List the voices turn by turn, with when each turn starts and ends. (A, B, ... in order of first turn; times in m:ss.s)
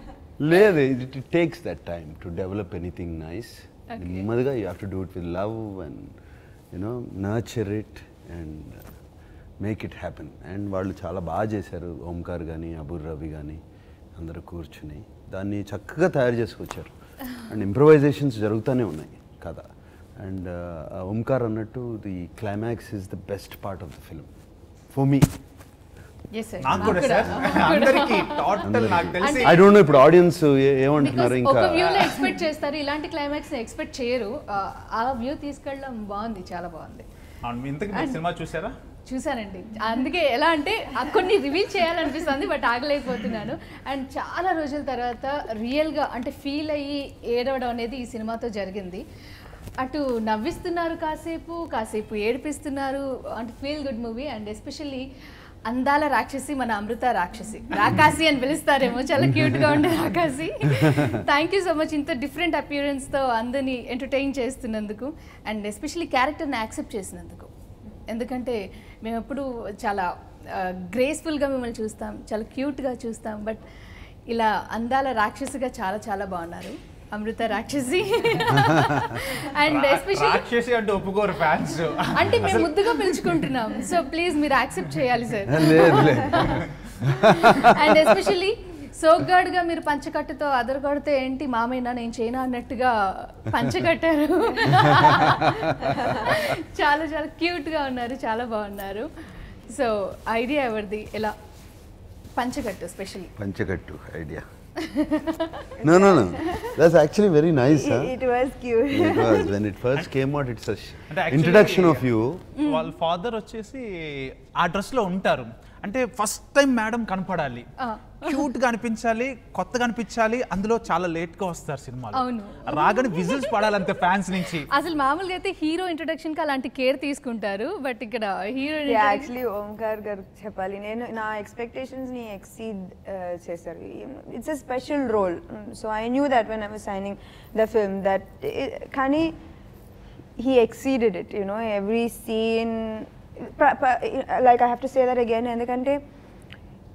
0:00.4-0:06.2 A
0:03.9-0:04.3 B
0:06.7-0:08.9 A
0:09.6-0:13.6 A
0:14.2-0:24.3 A
0:24.9-0:25.4 A
0:26.3-0:28.6 B
0:26.6-0:29.7 C
0:26.8-0:27.6 A
0:28.6-0:32.0 A
0:29.2-0:29.6 B
0:31.0-0:37.1 B
0:31.8-0:32.2 C
0:37.4-0:38.8 C
0:37.9-0:38.2 B
0:39.1-0:49.0 B
0:49.8-0:55.1 B
0:55.7-1:07.5 B
1:00.9-1:01.2 A
1:08.1-1:13.6 B
1:14.3-1:20.5 B
1:18.5-1:19.2 A
1:19.5-1:23.4 C
1:22.1-1:39.1 B
1:25.5-1:28.1 A
1:34.7-1:36.4 A
1:39.7-1:41.4 B
1:42.4-1:43.3 B
1:43.4-1:44.5 A
1:44.8-1:45.8 B
1:45.8-1:46.8 D
1:45.8-1:48.1 A
1:47.7-1:49.5 D
1:48.9-1:52.4 A
1:51.1-1:52.1 C
1:52.6-1:52.9 B
1:52.6-1:57.7 C
1:57.8-1:58.5 B
1:58.2-2:04.7 C
2:02.1-2:03.7 B
2:04.7-2:09.3 B
2:08.9-2:19.4 D
2:20.4-2:26.0 D